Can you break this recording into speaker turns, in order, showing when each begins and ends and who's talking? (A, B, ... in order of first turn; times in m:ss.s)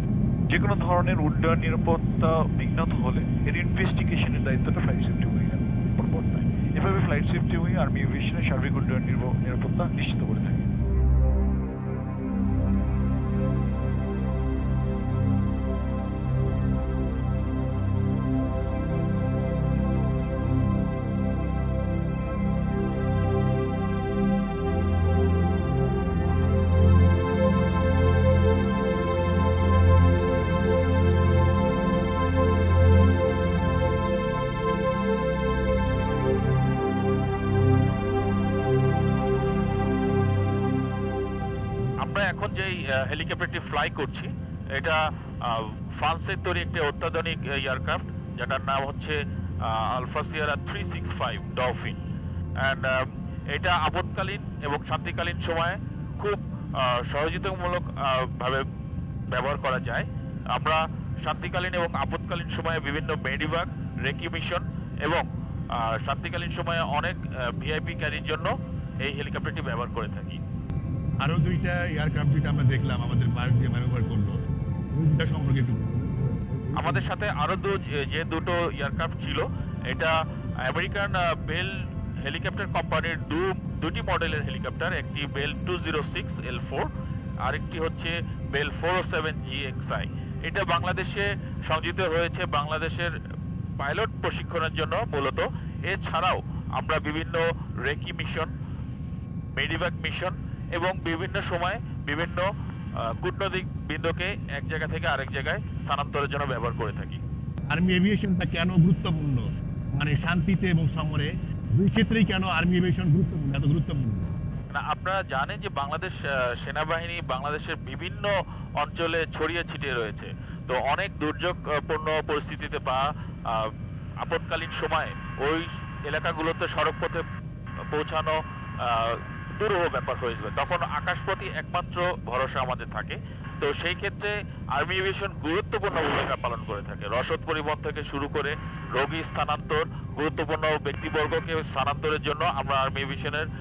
0:00.5-0:10.7 A
0:42.0-0:52.0 B
0:52.6-0:58.6 B
0:59.3-1:08.5 B
1:09.0-1:10.4 B
1:11.2-1:14.4 C
1:14.9-1:17.0 C
1:16.8-1:26.9 B
1:27.4-1:33.1 B
1:33.8-1:38.5 B
1:39.6-1:42.5 B
1:43.0-1:47.2 B
1:47.7-1:54.3 C
1:54.7-2:03.7 B
2:04.2-2:07.2 B
2:07.9-2:23.5 B